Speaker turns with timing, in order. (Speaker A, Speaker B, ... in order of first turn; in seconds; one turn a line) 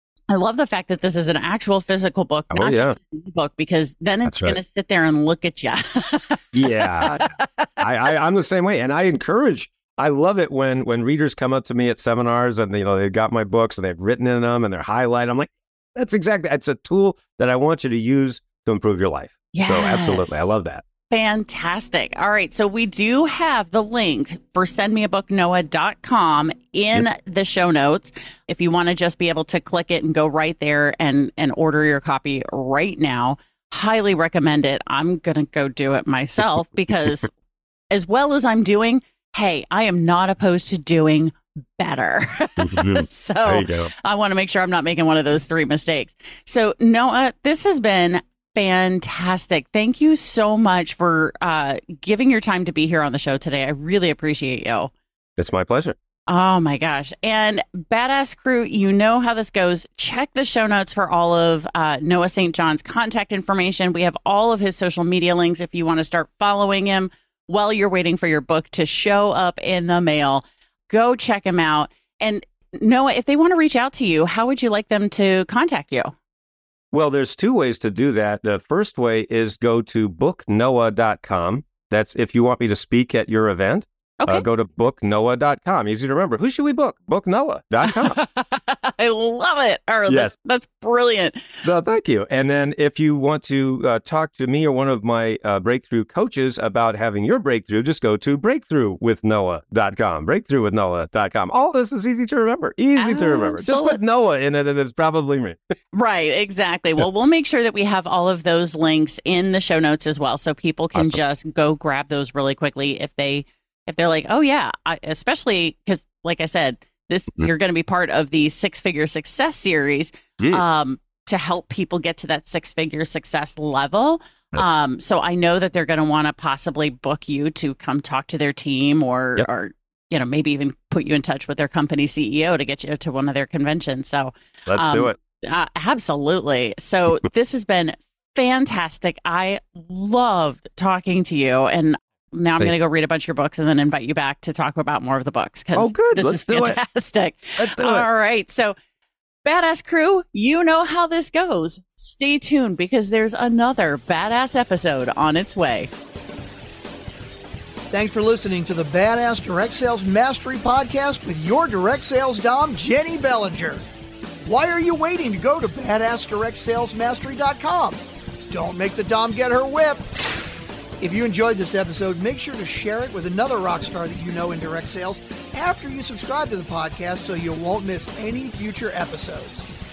Speaker A: 0.3-7.8
Speaker B: 2.5-3.0
Speaker B: 4.2-4.6
Speaker B: 6.5-7.3
Speaker B: 7.8-20.8
Speaker A: 19.5-20.5
Speaker A: 21.1-37.3
Speaker A: 37.9-54.9
Speaker B: 42.6-43.9
Speaker B: 55.4-56.0
Speaker A: 56.3-76.1
Speaker B: 76.9-88.2
Speaker A: 87.8-91.7
Speaker B: 91.6-105.6
Speaker A: 103.0-104.0
Speaker A: 105.9-148.7
Speaker B: 134.7-135.2
Speaker B: 145.7-146.8
Speaker B: 147.6-148.1
Speaker A: 149.4-155.9
Speaker C: 157.9-163.8
Speaker C: 164.4-170.0
Speaker C: 171.0-179.6